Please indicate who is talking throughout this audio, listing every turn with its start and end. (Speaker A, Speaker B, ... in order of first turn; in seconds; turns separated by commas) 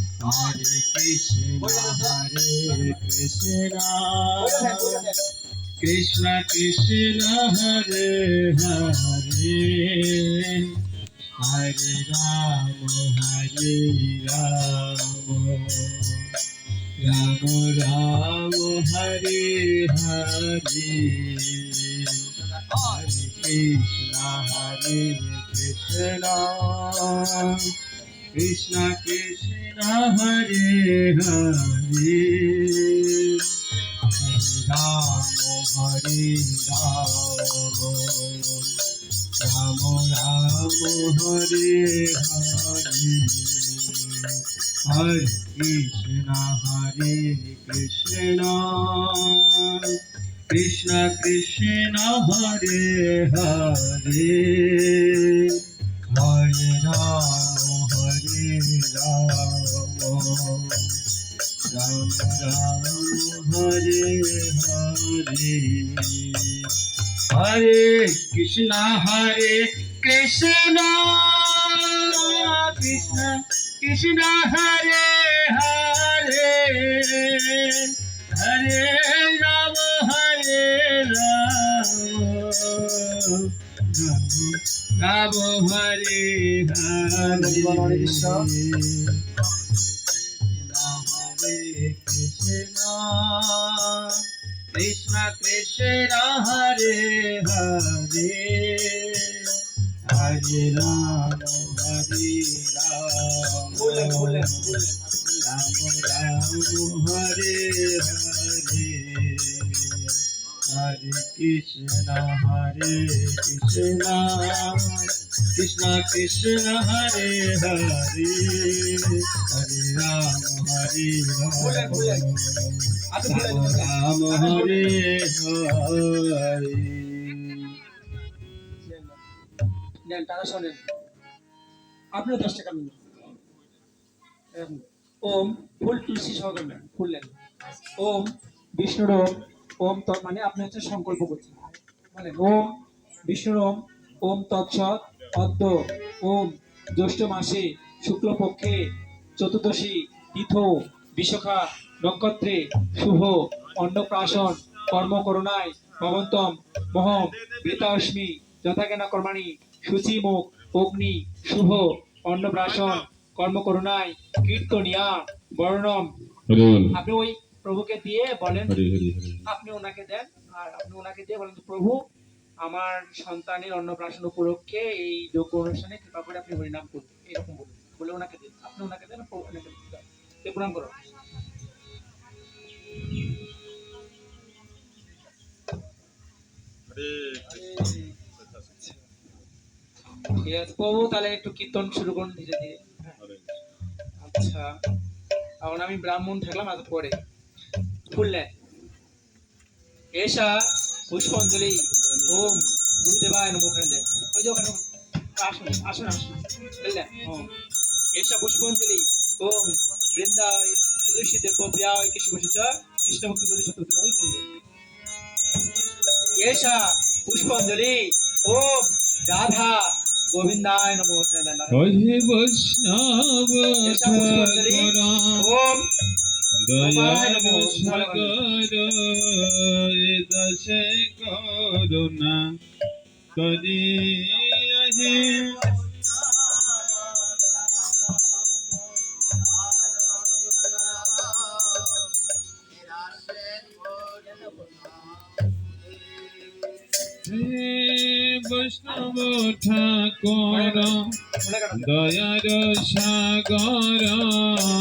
Speaker A: 0.2-5.1, Speaker B: 0.2-0.6, Speaker B: 1.6-3.0, Speaker B: 4.4-5.3, Speaker A: 5.8-10.8, Speaker A: 11.4-16.3, Speaker A: 17.0-27.8, Speaker B: 22.4-23.0, Speaker A: 28.3-38.8, Speaker A: 39.4-61.0, Speaker A: 61.7-66.8, Speaker A: 67.3-89.2, Speaker B: 72.1-73.3, Speaker B: 87.2-88.5, Speaker A: 90.4-104.8, Speaker B: 103.8-105.5, Speaker A: 105.4-127.8, Speaker B: 121.6-122.3, Speaker B: 123.1-124.9, Speaker B: 128.8-129.2, Speaker B: 130.1-130.8, Speaker B: 132.1-133.0, Speaker B: 134.6-137.3, Speaker B: 138.0-148.8, Speaker B: 149.4-166.1, Speaker C: 166.5-166.9, Speaker B: 166.9-168.8, Speaker C: 168.7-169.4, Speaker B: 169.4-172.0, Speaker B: 172.6-180.9, Speaker B: 187.4-189.0, Speaker B: 190.4-193.2, Speaker C: 193.2-193.5, Speaker B: 194.2-194.7, Speaker B: 195.6-197.2, Speaker B: 198.1-198.5, Speaker B: 200.2-204.8, Speaker B: 205.4-207.5, Speaker B: 208.1-214.4, Speaker B: 216.4-222.2, Speaker C: 221.7-223.0, Speaker A: 222.3-225.3, Speaker B: 223.8-225.8, Speaker C: 223.9-224.9, Speaker A: 226.8-229.2, Speaker B: 226.8-228.3, Speaker C: 226.8-228.3, Speaker C: 230.2-232.2, Speaker A: 231.4-232.3, Speaker A: 233.3-235.7, Speaker C: 233.4-235.7, Speaker A: 243.1-244.7, Speaker C: 247.3-251.0, Speaker A: 248.7-250.9, Speaker B: 250.5-252.2, Speaker C: 251.8-254.3, Speaker A: 252.2-254.1